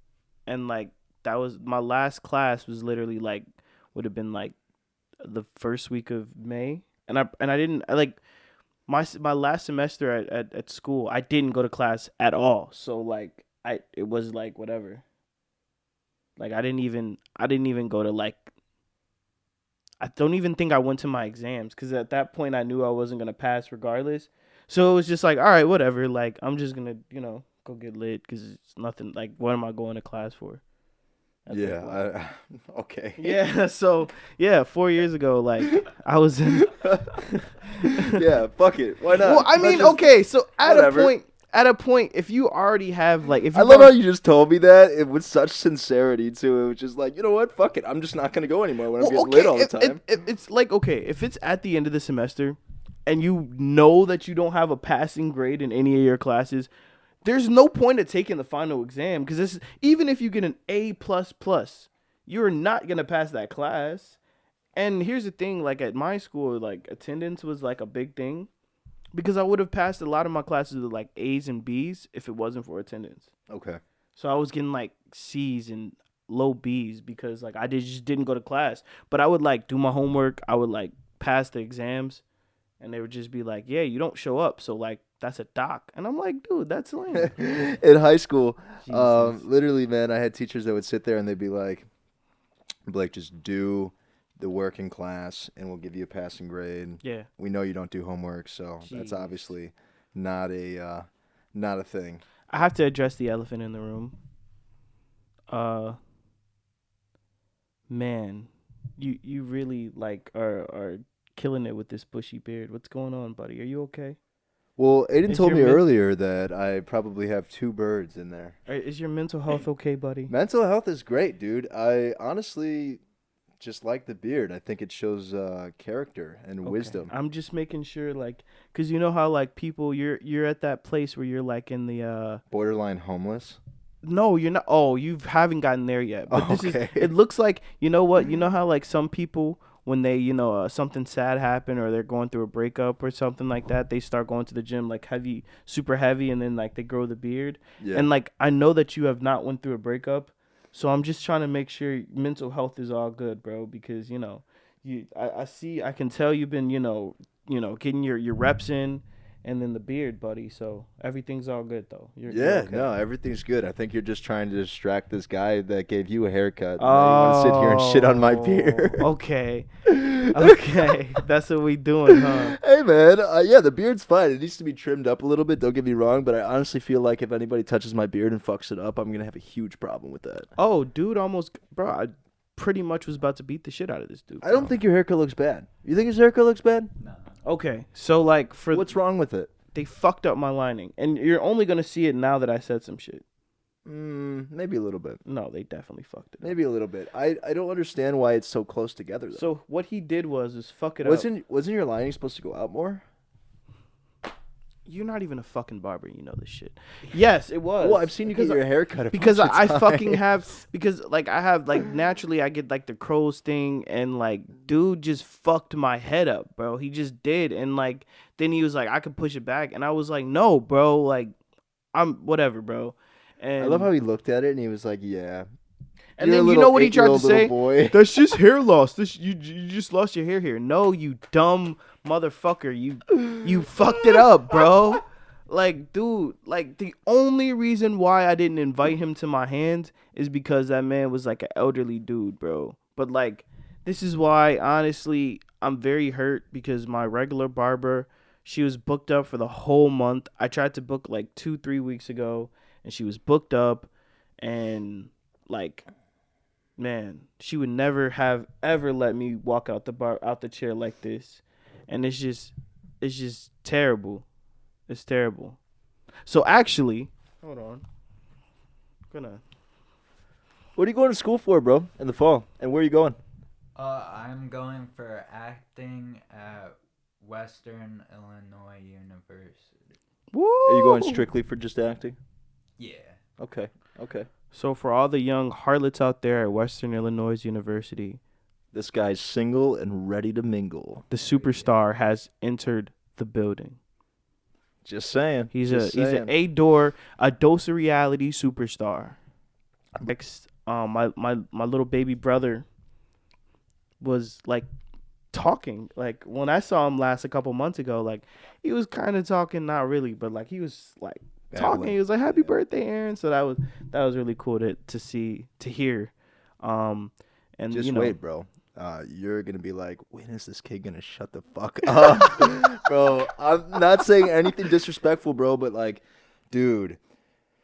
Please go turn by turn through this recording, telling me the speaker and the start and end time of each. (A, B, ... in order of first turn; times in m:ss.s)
0:00.5-0:04.6 A
0:05.2-0:08.2 A
0:08.9-0:15.0 A
0:16.4-0:18.5 A
0:20.0-0:30.6 A
0:31.5-0:32.0 A
0:31.5-0:33.4 B
0:33.2-0:38.2 A
0:36.6-0:37.1 B
0:38.0-0:40.0 B
0:39.2-0:43.9 A
0:40.6-0:41.1 B
0:43.5-0:50.0 B
0:49.0-0:56.7 A
0:57.2-1:04.2 A
1:04.8-1:08.5 A
1:09.1-1:13.3 A
1:13.5-1:13.8 B
1:14.2-1:22.2 A
1:22.8-1:27.4 A
1:27.2-1:31.9 B
1:28.8-1:29.4 A
1:32.9-1:42.2 B
1:37.0-1:37.3 A
1:38.8-1:39.4 A
1:42.5-1:44.2 A
1:45.5-1:46.0 A
1:47.9-1:54.2 A
1:54.8-1:58.6 B
1:55.3-1:55.8 A
1:58.7-2:00.3 A
2:00.3-2:03.0 B
2:03.6-2:07.1 B
2:06.6-2:12.4 A
2:12.5-2:13.6 B
2:14.0-2:42.9 A
2:16.3-2:17.1 B
2:27.8-2:28.1 B
2:42.3-2:49.1 B
2:46.8-2:49.7 A
2:49.9-2:50.5 B
2:50.2-2:52.6 A
2:52.2-3:00.5 B
3:00.6-3:04.6 A
3:04.4-3:06.9 B
3:07.0-3:07.4 C
3:07.4-3:08.9 A
3:08.7-3:09.5 B
3:09.7-3:13.2 A
3:13.9-3:15.2 B
3:15.2-3:16.5 A
3:16.4-3:19.5 B
3:19.3-3:21.3 A
3:21.0-3:23.0 B
3:24.8-3:28.6 A
3:27.8-3:30.2 B
3:29.1-3:41.4 A
3:41.9-3:43.9 A
3:43.6-3:45.5 B
3:46.2-4:15.9 A
3:46.2-3:48.0 B
4:16.8-4:24.3 A
4:24.9-4:25.6 A
4:26.2-4:27.8 A
4:29.1-4:29.4 A
4:30.8-4:33.2 B
4:33.8-4:39.8 C
4:40.3-4:41.2 A
4:40.7-4:42.2 B
4:42.8-4:43.2 C
4:43.4-4:44.3 B
4:44.5-4:48.2 A
4:48.7-4:51.1 B
4:51.1-4:53.8 A
4:51.3-4:51.7 C
4:54.8-4:56.3 B
4:55.5-4:59.2 A
5:00.0-5:02.7 A
5:04.0-5:04.7 A
5:05.3-5:18.2 A
5:11.5-5:12.5 B
5:17.7-5:27.0 B